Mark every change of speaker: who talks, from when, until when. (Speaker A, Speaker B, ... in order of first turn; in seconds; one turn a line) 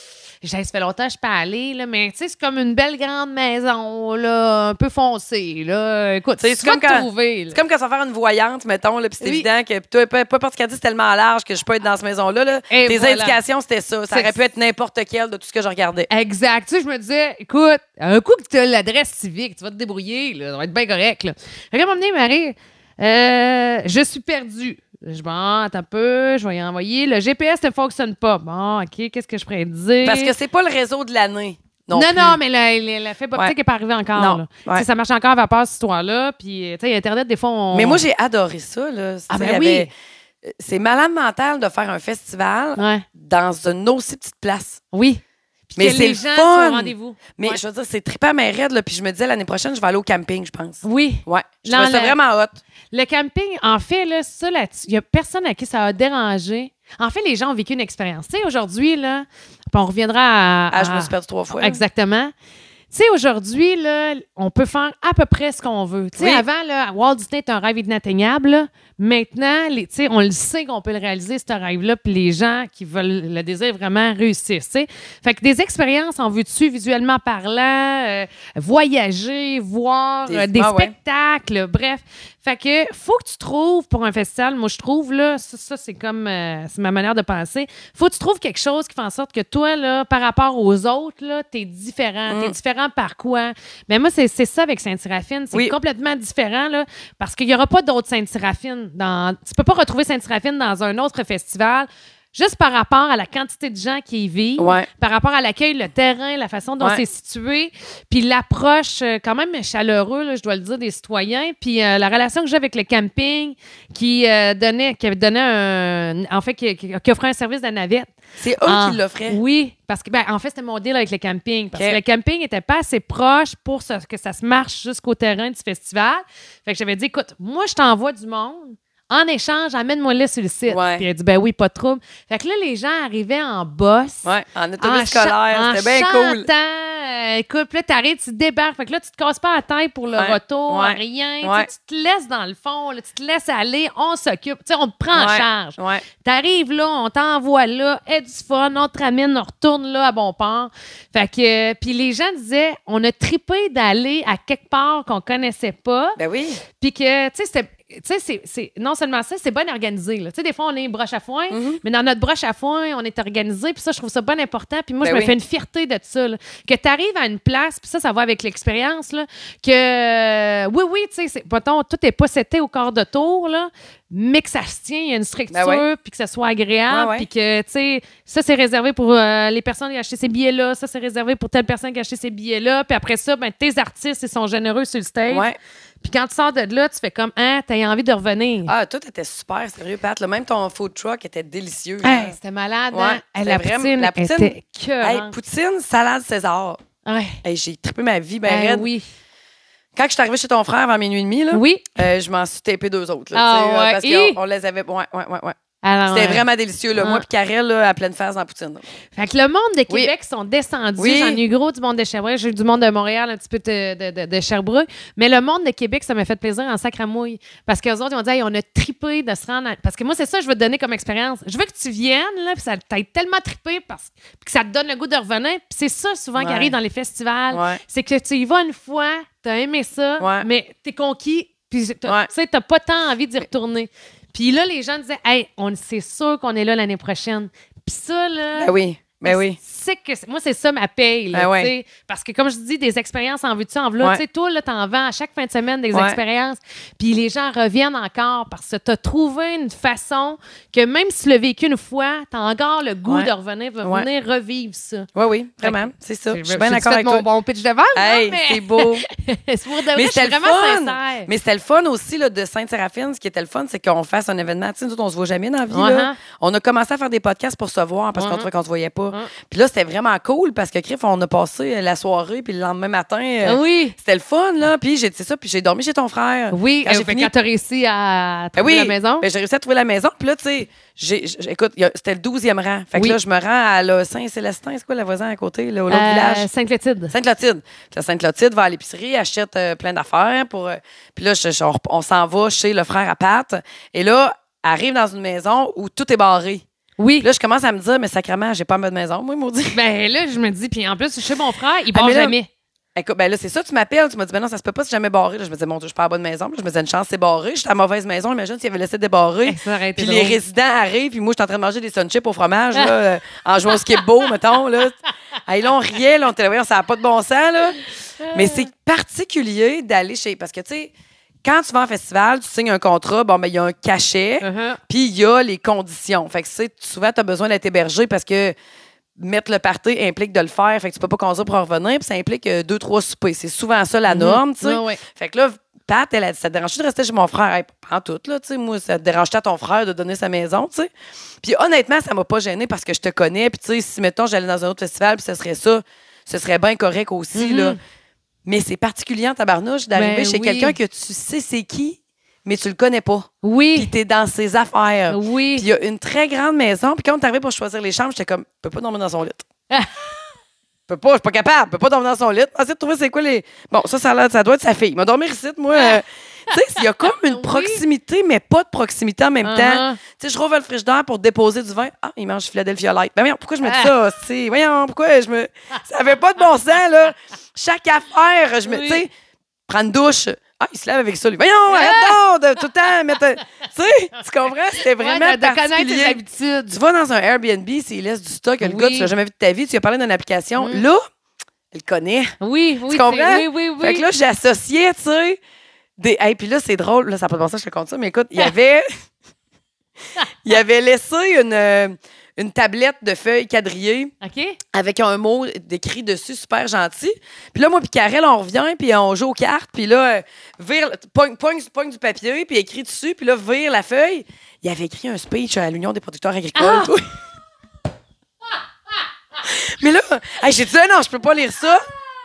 Speaker A: 0.4-7.6
Speaker B: 6.4-16.1
Speaker A: 9.2-9.5
Speaker A: 12.7-13.4
Speaker A: 16.1-30.3
Speaker B: 30.0-32.4
Speaker A: 31.9-38.0
Speaker B: 34.1-34.9
Speaker B: 37.7-39.9
Speaker A: 39.3-39.9
Speaker B: 40.4-44.8
Speaker A: 42.8-43.0
Speaker A: 44.9-47.6
Speaker B: 45.8-52.6
Speaker A: 50.8-52.2
Speaker A: 52.9-62.3
Speaker B: 60.7-61.8
Speaker A: 62.9-118.1
Speaker B: 66.2-66.4
Speaker B: 80.2-80.9
Speaker B: 92.3-92.5
Speaker B: 104.6-104.9
Speaker B: 118.4-119.4
Speaker A: 118.6-134.3
Speaker B: 121.7-122.0
Speaker B: 130.7-131.1
Speaker B: 134.2-136.5
Speaker A: 134.8-156.2
Speaker B: 140.2-141.7
Speaker B: 145.1-146.0
Speaker B: 156.2-156.6
Speaker A: 156.7-185.5
Speaker B: 161.5-161.8
Speaker B: 165.0-165.3
Speaker B: 175.5-175.8
Speaker B: 176.9-177.3
Speaker B: 185.3-185.6
Speaker A: 186.0-188.7
Speaker B: 188.7-192.3
Speaker A: 192.0-195.3
Speaker B: 192.9-196.8
Speaker A: 197.0-197.4
Speaker B: 197.4-198.9
Speaker A: 198.4-199.0
Speaker B: 199.9-205.6
Speaker A: 201.5-201.9
Speaker A: 203.3-204.4
Speaker A: 205.8-206.4
Speaker B: 206.1-208.8
Speaker A: 207.0-207.2
Speaker A: 209.1-238.7
Speaker B: 211.0-211.4
Speaker B: 226.4-226.7
Speaker B: 227.5-227.8
Speaker B: 230.2-230.5
Speaker B: 238.6-239.6
Speaker A: 239.2-255.1
Speaker B: 241.3-241.7
Speaker B: 245.9-246.2
Speaker B: 255.1-257.2
Speaker A: 255.6-261.3
Speaker B: 257.9-259.0
Speaker B: 259.9-277.3
Speaker A: 265.7-266.2
Speaker A: 268.1-268.5
Speaker A: 273.4-273.9
Speaker A: 276.5-279.2
Speaker B: 278.5-286.5
Speaker A: 285.9-287.1
Speaker B: 287.1-296.6
Speaker A: 297.0-297.3
Speaker B: 297.2-299.8
Speaker A: 299.7-302.5
Speaker B: 301.9-302.3
Speaker B: 302.9-314.9
Speaker A: 309.4-310.4
Speaker A: 313.7-314.3
Speaker B: 315.4-317.8
Speaker A: 318.2-318.7
Speaker B: 318.3-320.9
Speaker B: 321.4-328.5
Speaker A: 324.4-324.8
Speaker B: 329.2-340.9
Speaker A: 334.1-335.0
Speaker B: 341.4-347.8
Speaker A: 347.3-347.8
Speaker B: 348.4-359.4
Speaker A: 349.9-350.8
Speaker A: 353.4-353.9
Speaker A: 355.1-355.7
Speaker A: 359.7-360.0
Speaker B: 360.9-379.1
Speaker A: 366.5-367.8
Speaker A: 369.4-370.0
Speaker A: 373.6-373.9
Speaker A: 378.6-379.0
Speaker B: 379.7-386.2
Speaker A: 381.7-382.2
Speaker A: 384.8-386.8
Speaker B: 386.7-391.0
Speaker A: 388.6-389.1
Speaker A: 390.6-390.9
Speaker B: 391.7-392.3
Speaker A: 392.4-394.1
Speaker B: 392.9-395.4
Speaker B: 396.0-398.9
Speaker B: 400.4-404.1
Speaker A: 404.2-404.6
Speaker B: 404.7-417.0
Speaker A: 416.6-416.9
Speaker B: 419.4-421.9